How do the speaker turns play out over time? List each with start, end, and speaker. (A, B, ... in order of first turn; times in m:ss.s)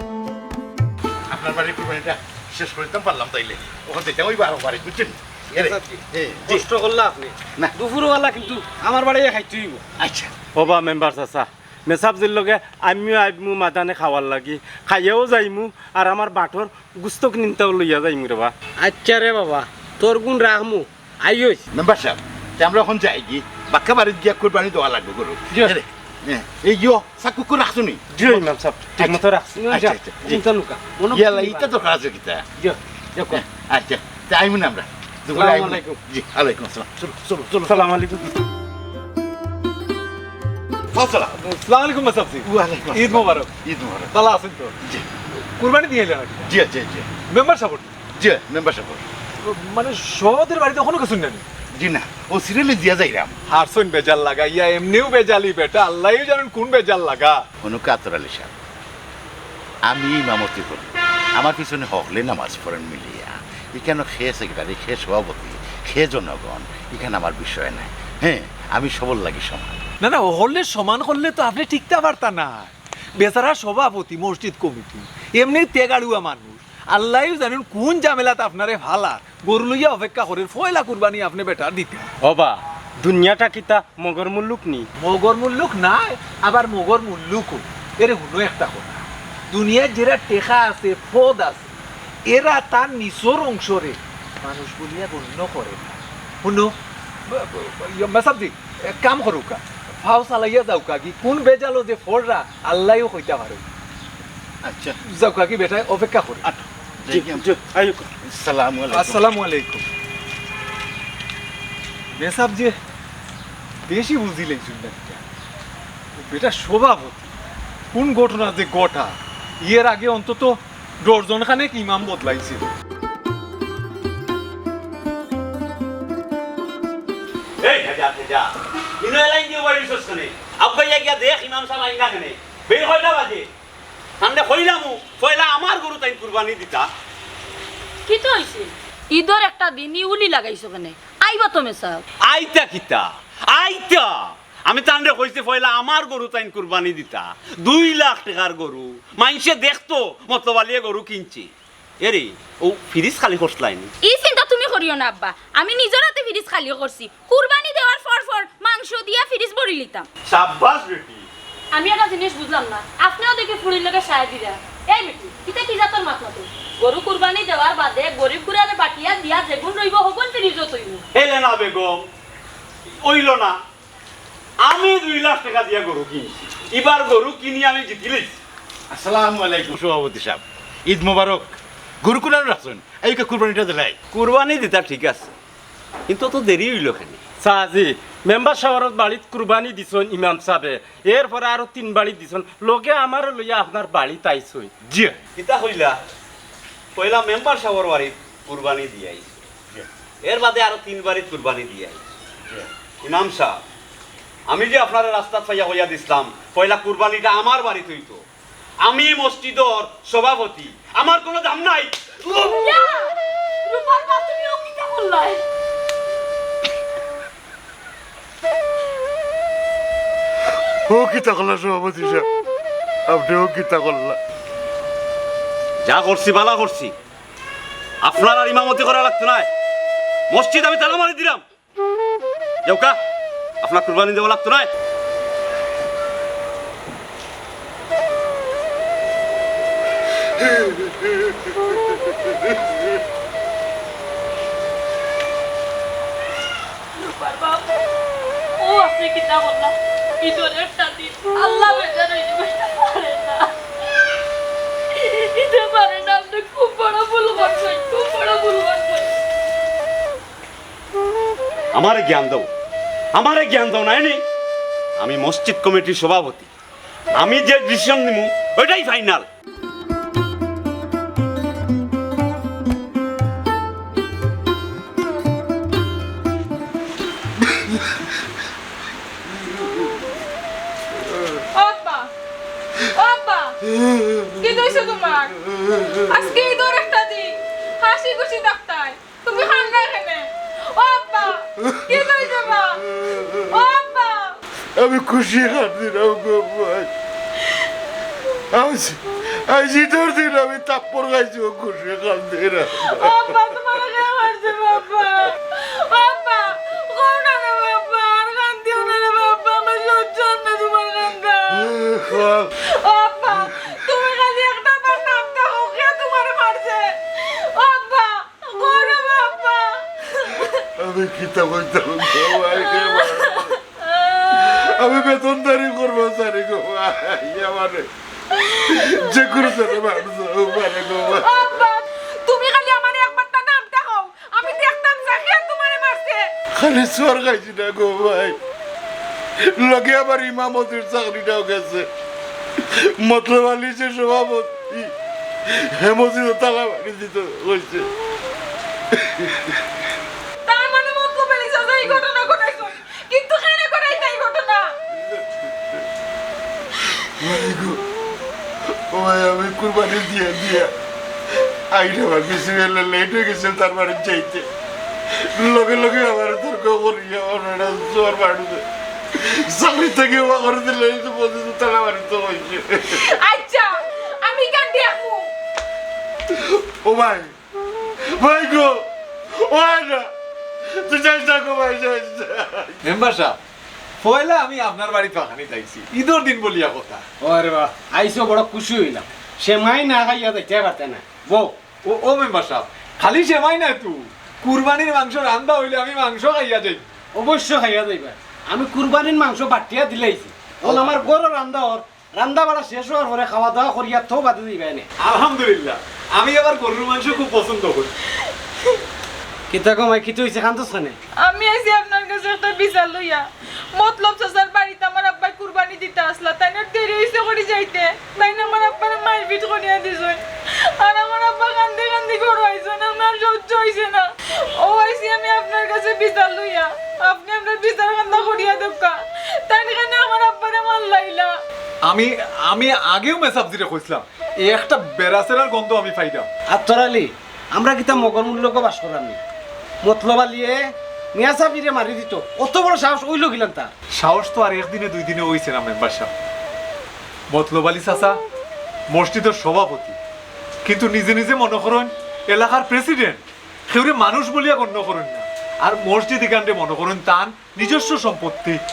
0:01.3-0:06.7 A
0:05.5-0:09.8 B
0:10.0-0:10.3 A
0:10.6-0:18.5 C
0:18.8-0:21.6 B
0:21.7-0:28.4 A
0:28.2-0:29.6 C
0:29.0-0:30.4 A
0:29.6-0:31.7 B
0:31.1-0:32.4 A
0:32.6-0:33.4 B
0:33.3-0:38.0 A
0:35.3-0:36.0 B
0:40.9-0:41.4 A
0:41.4-0:43.5 D
0:42.4-0:44.1 A
0:44.1-0:44.8 D
0:45.6-0:46.5 D
0:46.5-0:47.1 A
0:47.3-0:47.9 D
0:48.2-0:49.1 A
0:49.4-0:51.5 D
0:51.8-0:53.4 A
0:53.5-0:57.4 D
0:57.6-0:58.5 A
0:59.9-1:09.8 A
1:10.0-1:22.1 D
1:22.2-1:24.9 C
1:25.0-1:31.7 D
1:32.3-1:36.8 D
1:37.3-1:43.6 D
1:44.6-1:45.0 A
1:45.1-1:46.4 D
1:46.4-1:47.6 A
1:47.1-1:48.0 C
1:48.1-1:49.3 A
1:48.9-1:49.8 D
1:52.2-1:52.8 D
1:53.9-1:55.2 D
1:56.2-1:57.3 D
1:57.9-2:02.7 D
2:07.6-2:13.5 E
2:14.2-2:16.9 E
2:18.1-2:22.0 F
2:22.3-2:31.5 E
2:32.0-2:33.9 E
2:34.0-2:40.1 G
2:40.3-2:41.3 E
2:41.7-2:51.0 F
2:51.1-2:52.1 E
2:53.0-2:53.6 E
2:54.6-2:58.3 E
2:58.9-3:04.0 A
3:04.1-3:05.3 E
3:06.1-3:07.2 E
3:07.4-3:14.7 C
3:14.8-3:15.2 D
3:15.4-3:16.0 E
3:17.0-3:19.5 E
3:20.2-3:22.2 E
3:23.0-3:23.6 E
3:24.5-3:28.2 E
3:28.8-3:32.0 E
3:32.2-3:33.1 F
3:33.7-3:35.4 F
3:40.9-3:42.2 A
3:43.1-3:44.2 A
3:45.8-3:46.9 E
3:48.0-3:49.5 E
3:50.3-3:51.4 E
3:52.7-3:53.0 E
3:53.6-3:54.7 E
4:07.0-4:07.7 F
4:08.6-4:13.5 F
4:15.0-4:19.1 F
4:21.7-4:22.5 E
4:23.1-4:24.2 E
4:25.0-4:26.5 E
4:27.2-4:29.3 E
4:41.5-4:42.1 H
4:42.8-4:43.6 H
4:44.3-4:45.4 H
4:46.0-4:52.8 H
4:51.6-4:52.3 A
4:53.0-4:53.6 A
4:53.5-4:54.4 H
4:54.8-4:56.9 A
4:58.5-5:03.4 A
5:02.8-5:20.6 H
5:11.5-5:12.5 A
5:20.8-5:23.6 A
5:22.2-5:24.8 H
5:24.4-5:27.9 A
5:28.7-5:31.4 A
5:31.1-5:36.3 H
5:36.5-5:38.4 A
5:39.5-5:41.9 A
5:43.0-5:44.9 A
5:45.8-5:47.9 A
5:49.1-5:49.6 A
5:50.5-5:54.7 H
5:57.2-5:57.8 A
5:58.9-6:00.7 A
6:01.7-6:04.5 A
6:05.3-6:08.6 A
6:09.2-6:13.0 A
6:12.9-6:15.3 H
6:16.8-6:17.3 A
6:18.2-6:18.9 A
6:19.5-6:20.1 A
6:20.8-6:22.8 A
6:22.8-6:23.4 D
6:24.0-6:27.0 D
6:27.2-6:31.6 B
6:31.8-6:36.9 D
6:37.2-6:44.9 B
6:40.7-6:41.1 D
6:45.0-6:47.9 D
6:49.5-6:51.0 B
6:51.2-7:11.3 H
7:11.9-7:16.3 D
7:16.5-7:19.2 B
7:19.8-7:23.7 B
7:23.9-7:26.1 D
7:27.3-7:28.2 D
7:28.9-7:30.0 D
7:30.6-7:38.6 D